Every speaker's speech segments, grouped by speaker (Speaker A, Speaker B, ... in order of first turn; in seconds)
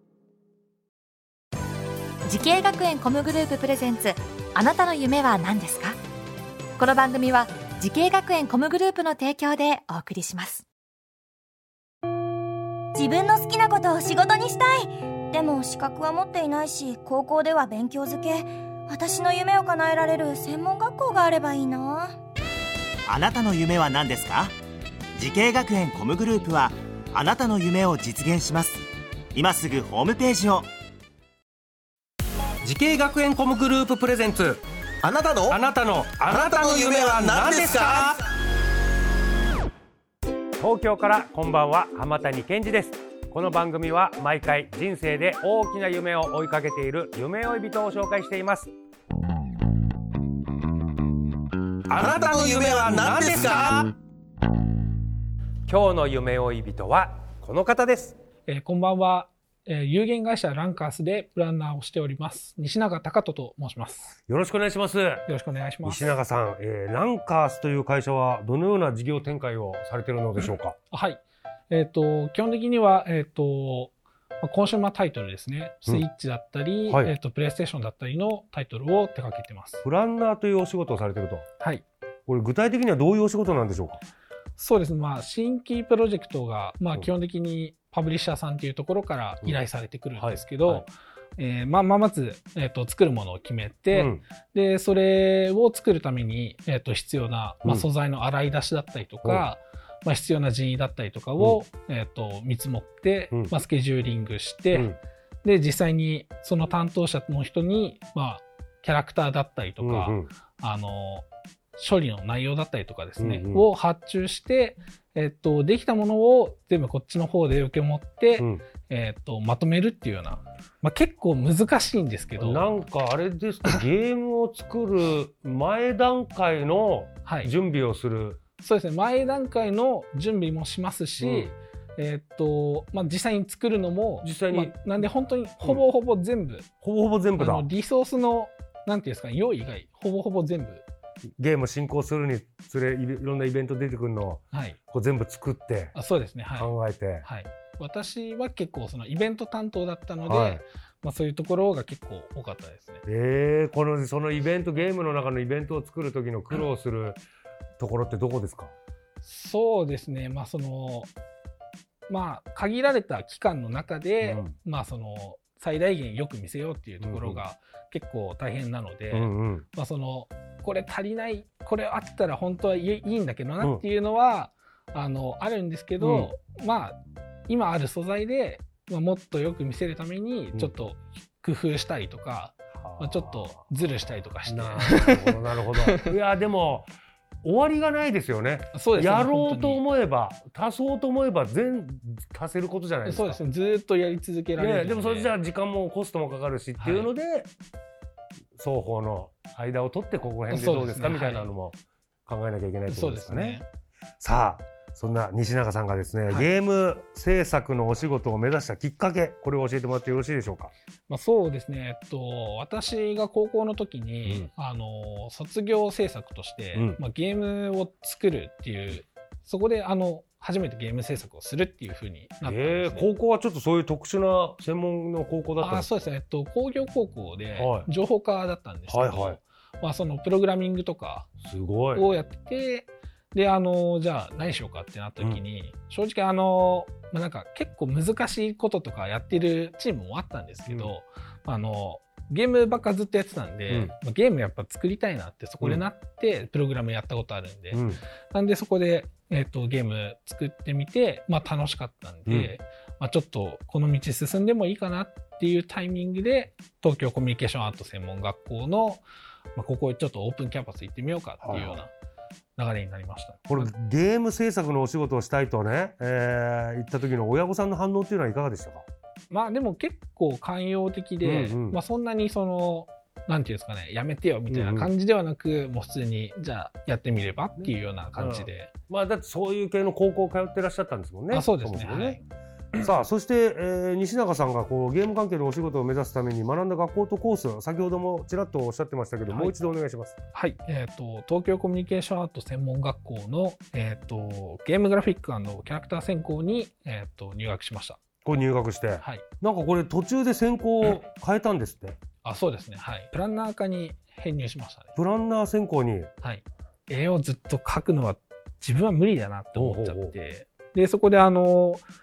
Speaker A: 2.2-6.0, 6.8-10.7
Speaker B: 12.9-22.2
Speaker C: 23.1-24.5, 25.2-30.7
Speaker D: 32.6-34.6, 35.5-38.2, 40.6-48.7, 51.9-53.9, 55.7-58.2, 64.3-65.2, 65.8-70.8, 79.8-81.5, 82.3-84.0, 90.2-90.9, 93.9-94.2, 109.8-110.3, 113.2-113.7, 122.4-128.4, 131.2-131.5, 134.2-134.8, 136.8-137.7, 141.4-145.9, 146.5-147.3, 150.3-150.6, 153.1-157.2, 157.8-158.7, 164.2-164.5, 167.0-167.4, 169.1-169.7, 176.0-176.3, 182.8-183.6, 184.5-186.9, 187.4-193.4, 194.6-197.5, 198.6-203.6, 204.2-210.7, 216.8-217.0, 222.4-225.9, 227.6-227.9, 228.9-229.4, 231.4-232.1, 240.7-240.9, 247.7-248.0, 252.3-252.5, 261.4-261.8, 263.5-268.9, 271.2-271.8, 274.5-274.9, 277.6-282.2, 282.8-290.2, 298.2-302.0, 305.0-306.1, 309.6-310.1
Speaker E: 35.0-35.6, 36.3-38.1, 52.0-53.9
Speaker F: 58.5-64.2, 65.3-66.2, 70.4-79.8, 81.6-81.8, 84.6-104.9, 105.4-111.2, 111.8-122.8, 127.2-127.5, 128.6-136.7, 137.4-140.8, 144.5-144.8, 145.9-146.7, 147.2-153.0, 159.2-161.1, 162.1-186.1, 188.7-189.8, 193.0-195.3, 196.8-197.1, 200.5-201.5, 202.9-203.7, 211.1-223.1, 225.6-231.3, 231.9-259.0, 259.6-261.9, 262.6-263.7, 269.3-278.7, 281.3-282.2, 289.3-289.6, 290.3-298.0, 299.0-299.2, 302.2-304.9, 306.2-311.8